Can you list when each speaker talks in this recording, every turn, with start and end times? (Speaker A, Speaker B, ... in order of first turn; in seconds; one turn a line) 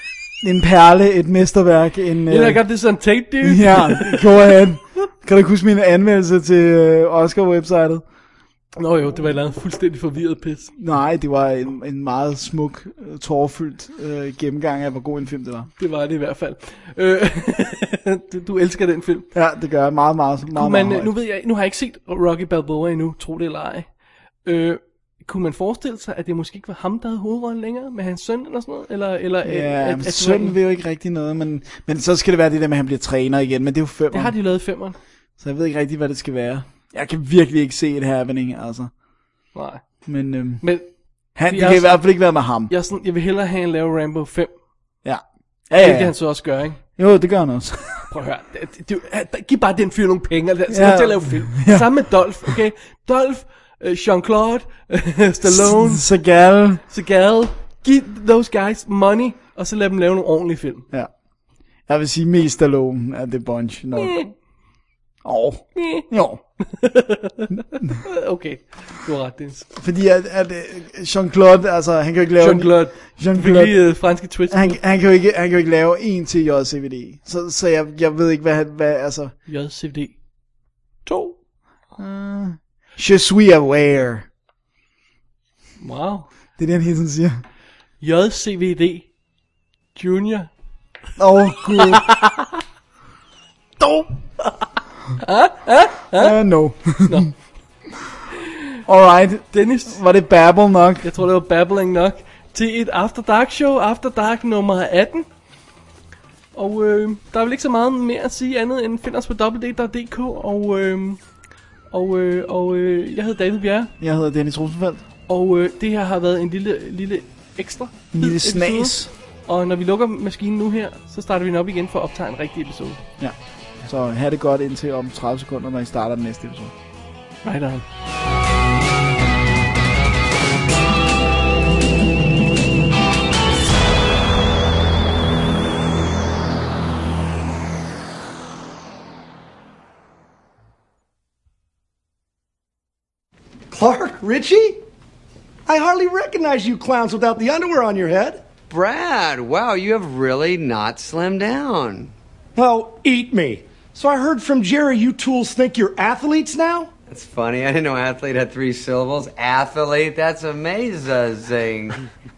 Speaker A: 0.4-2.6
Speaker B: 2.3-4.5
Speaker A: 3.4-8.0
Speaker B: 8.8-10.7
Speaker A: 10.8-15.7
Speaker B: 15.8-19.3
Speaker A: 19.3-21.1
Speaker B: 20.5-23.9
Speaker B: 24.4-30.6
Speaker A: 29.4-34.4
Speaker B: 34.1-35.0
Speaker A: 35.4-38.9
Speaker B: 39.5-39.8
Speaker A: 40.1-40.6
Speaker B: 40.6-40.9
Speaker A: 41.4-42.7
Speaker B: 41.5-42.1
Speaker B: 42.7-44.5
Speaker A: 45.0-46.1
Speaker B: 45.8-46.8
Speaker A: 47.0-48.1
Speaker B: 48.1-56.0
Speaker A: 50.7-51.9
Speaker A: 55.5-56.8
Speaker B: 56.9-60.9
Speaker A: 61.9-64.2
Speaker B: 64.0-64.3
Speaker A: 65.2-66.4
Speaker B: 65.8-66.0
Speaker B: 66.7-69.7
Speaker A: 69.8-73.8
Speaker B: 72.4-74.8
Speaker A: 74.5-79.3
Speaker B: 79.5-80.1
Speaker B: 81.1-81.4
Speaker A: 82.0-84.3
Speaker B: 85.8-86.3
Speaker A: 86.6-87.4
Speaker B: 88.0-89.1
Speaker B: 90.0-90.5
Speaker A: 91.2-92.1
Speaker B: 91.8-92.5
Speaker B: 93.8-94.5
Speaker B: 95.2-96.4
Speaker A: 96.1-97.3
Speaker B: 97.0-97.3
Speaker A: 98.9-101.1
Speaker B: 99.5-100.0
Speaker B: 101.0-105.3
Speaker B: 106.5-111.2
Speaker B: 111.9-113.9
Speaker A: 114.0-115.0
Speaker B: 115.3-123.0
Speaker A: 118.1-119.1
Speaker A: 123.2-126.7
Speaker B: 127.4-127.8
Speaker C: 143.7-144.8
Speaker C: 145.7-148.5
Speaker D: 148.7-152.1
Speaker C: 152.6-156.9
Speaker D: 157.1-162.1